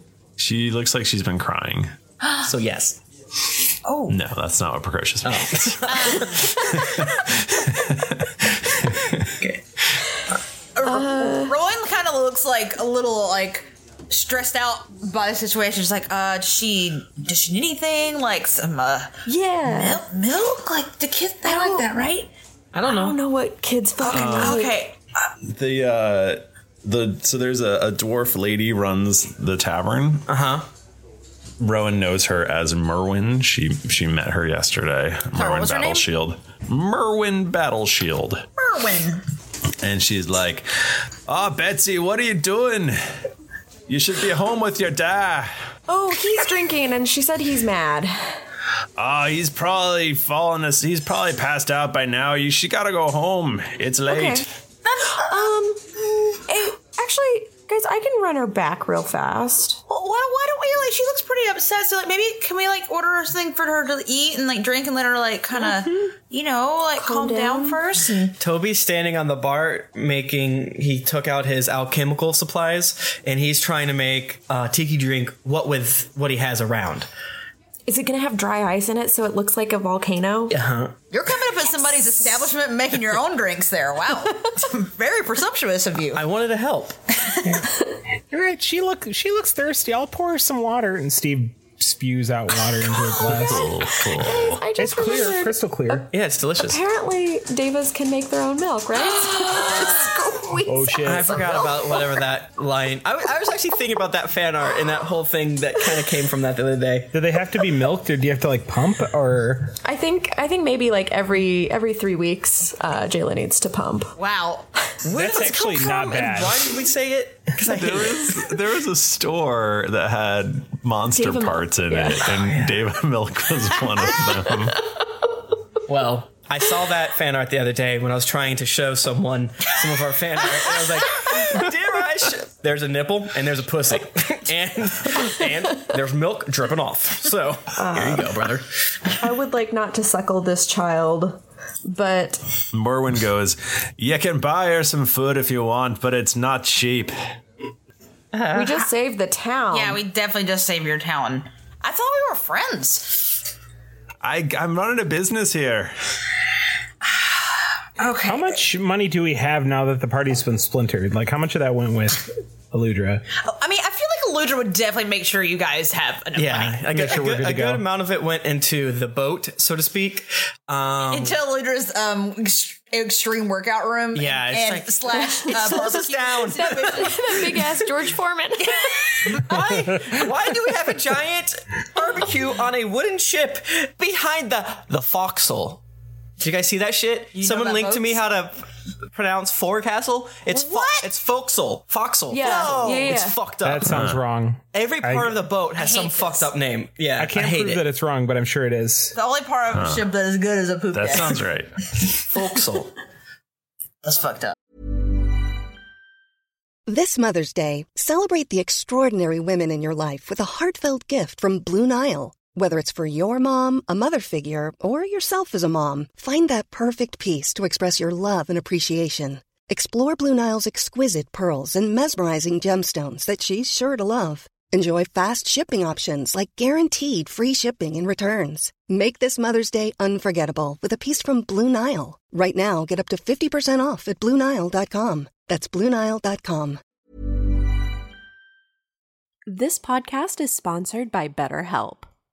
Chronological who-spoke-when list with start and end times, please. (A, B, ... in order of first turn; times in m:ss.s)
0:00.4-0:01.9 A
0:02.2-0:02.5 B
0:02.4-0:03.0 C
0:03.8-0:04.2 B
0:04.1-0:05.9 A
0:05.2-0:06.7 C
0:05.9-0:06.5 B
0:06.5-0:09.2 A
0:10.8-0:22.3 B
0:10.8-0:11.6 D
0:19.2-0:20.0 D
0:21.4-0:21.9 D
0:22.7-0:23.2 C
0:22.9-0:24.7 D
0:24.1-0:24.6 A
0:24.1-0:25.0 B
0:25.4-0:30.2 A
0:30.3-0:30.6 C
0:31.6-0:38.4 A
0:35.3-0:36.0 B
0:38.6-0:39.2 B
0:39.8-0:43.0 A
0:43.9-0:45.5 A
0:45.9-0:48.4 D
0:49.0-0:54.4 A
0:54.1-0:54.4 D
0:54.8-0:55.2 B
0:55.1-0:55.8 D
0:56.4-0:59.8 D
0:59.9-1:08.3 B
1:07.0-1:07.8 D
1:08.4-1:17.1 C
1:17.9-1:20.5 D
1:20.5-1:21.0 C
1:21.1-1:26.2 B
1:26.1-1:27.0 C
1:27.2-1:27.6 B
1:28.3-1:33.7 E
1:33.2-1:36.1 D
1:33.2-1:34.6 A
1:34.8-1:36.1 E
1:36.1-1:36.8 C
1:36.6-1:41.7 D
1:40.6-1:41.4 E
1:41.0-1:47.1 C
1:47.1-1:49.7 E
1:49.8-1:54.1 D
1:54.2-1:54.7 B
1:55.0-1:58.5 C
1:55.1-1:56.8 E
1:57.7-2:04.8 A
2:01.1-2:02.2 D
2:05.9-2:18.6 C
2:17.7-2:18.3 D
2:19.2-2:22.4 D
2:22.7-2:27.1 A
2:28.3-2:28.8 C
2:28.5-2:30.0 D
2:29.7-2:33.4 B
2:34.2-2:35.9 A
2:37.2-2:38.6 B
2:38.2-2:43.2 E
2:43.4-2:46.9 B
2:46.4-2:51.4 C
2:46.9-2:47.8 E
2:51.1-2:57.2 B
2:54.1-2:57.3 C
2:55.4-2:55.9 D
2:56.5-2:59.3 D
2:59.3-3:05.8 C
3:06.4-3:14.0 C
3:07.3-3:08.3 B
3:10.5-3:11.1 B
3:12.3-3:13.4 D
3:12.4-3:13.1 B
3:13.6-3:15.4 E
3:13.9-3:14.2 A
3:14.7-3:17.8 C
3:15.7-3:16.5 B
3:17.2-3:19.1 E
3:19.1-3:21.4 B
3:19.7-3:20.0 A
3:20.9-3:21.7 A
3:22.1-3:22.9 C
3:24.0-3:24.5 B
3:26.9-3:56.8 F
3:59.5-4:02.1 G